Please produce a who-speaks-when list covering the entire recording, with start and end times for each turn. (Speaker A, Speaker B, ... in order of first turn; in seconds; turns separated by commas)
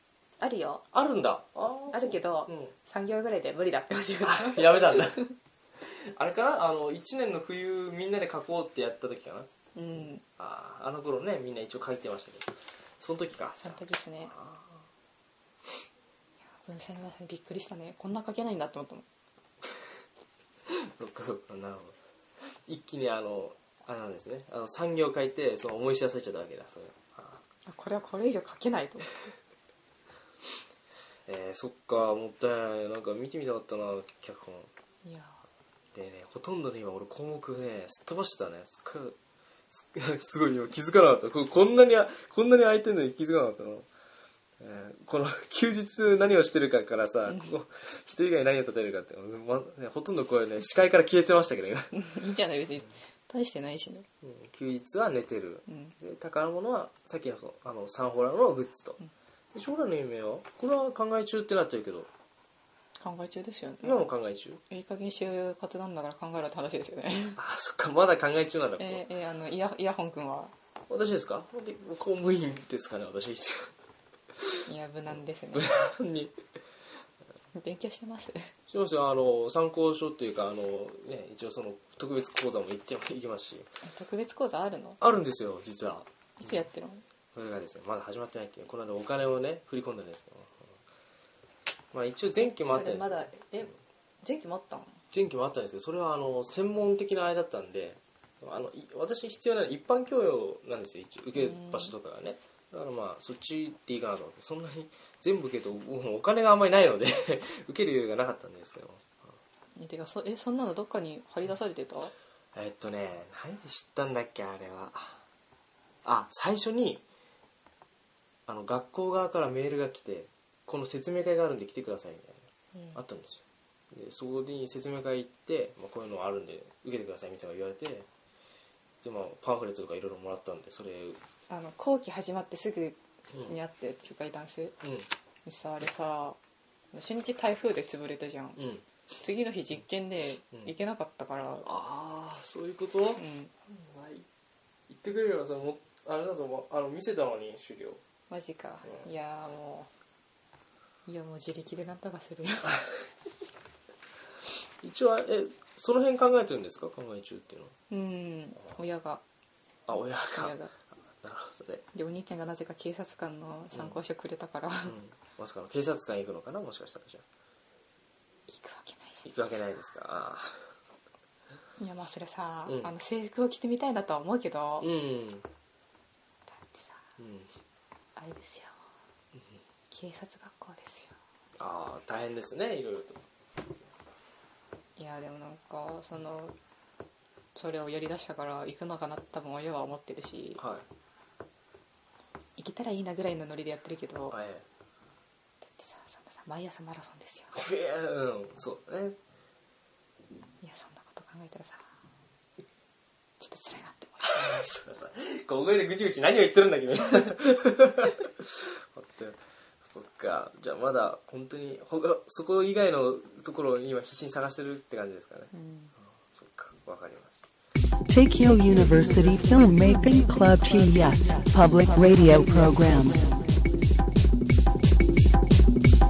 Speaker A: 0.4-0.8, Speaker B: 0.9-2.7, Speaker A: 1.9-5.3, Speaker B: 4.2-5.3, Speaker B: 5.8-9.5, Speaker A: 9.8-10.2, Speaker B: 10.4-14.8, Speaker A: 13.6-14.3, Speaker A: 16.5-19.1, Speaker B: 20.7-22.0, Speaker B: 22.7-27.4, Speaker A: 27.7-29.3, Speaker B: 31.3-34.7, Speaker A: 35.0-35.4, Speaker B: 35.9-39.2, Speaker B: 39.7-43.9, Speaker B: 44.6-52.0, Speaker A: 51.9-54.1, Speaker B: 54.2-59.0, Speaker A: 55.7-55.9, Speaker B: 59.5-62.1, Speaker A: 63.0-64.0, Speaker B: 63.8-64.6, Speaker A: 64.7-67.4, Speaker B: 67.4-69.0, Speaker A: 68.8-70.5, Speaker B: 70.9-73.7, Speaker A: 74.7-75.7, Speaker B: 75.5-76.3, Speaker A: 77.5-78.5, Speaker B: 78.7-83.7, Speaker A: 83.8-85.0, Speaker B: 85.0-86.6, Speaker A: 86.4-87.0, Speaker B: 87.3-90.7, Speaker B: 91.9-93.3, Speaker A: 92.6-95.0, Speaker B: 95.1-109.3, Speaker A: 101.4-101.9, Speaker A: 109.8-112.1, Speaker B: 112.5-115.2, Speaker B: 116.0-117.0, Speaker B: 118.5-123.4, Speaker A: 122.7-123.0, Speaker B: 123.9-128.1, Speaker B: 129.0-131.2, Speaker A: 131.5-134.8, Speaker B: 134.8-135.1, Speaker A: 135.4-136.4, Speaker A: 136.9-138.6, Speaker B: 138.6-138.8, Speaker A: 139.2-141.7, Speaker B: 141.6-144.3, Speaker A: 143.2-143.5, Speaker B: 144.9-148.0, Speaker A: 148.3-149.9, Speaker A: 151.1-152.8, Speaker B: 154.8-157.7, Speaker A: 157.9-159.2, Speaker B: 159.9-160.6, Speaker A: 160.3-160.7, Speaker B: 161.2-161.8, Speaker A: 161.9-165.0, Speaker B: 164.8-167.2, Speaker A: 168.5-169.5, Speaker B: 169.2-170.6, Speaker A: 171.8-174.9, Speaker B: 174.8-175.5, Speaker A: 176.5-177.0, Speaker B: 177.2-177.5, Speaker A: 178.2-178.8, Speaker A: 179.9-181.2, Speaker B: 181.6-183.2, Speaker A: 185.0-186.6, Speaker A: 187.6-190.6, Speaker B: 190.6-190.8, Speaker A: 192.6-194.4, Speaker B: 194.3-194.7, Speaker A: 195.6-197.5, Speaker B: 197.5-199.2, Speaker A: 200.6-201.9, Speaker A: 203.4-204.6, Speaker B: 204.2-215.5, Speaker A: 215.5-215.9, Speaker B: 216.3-217.5, Speaker C: 218.1-223.3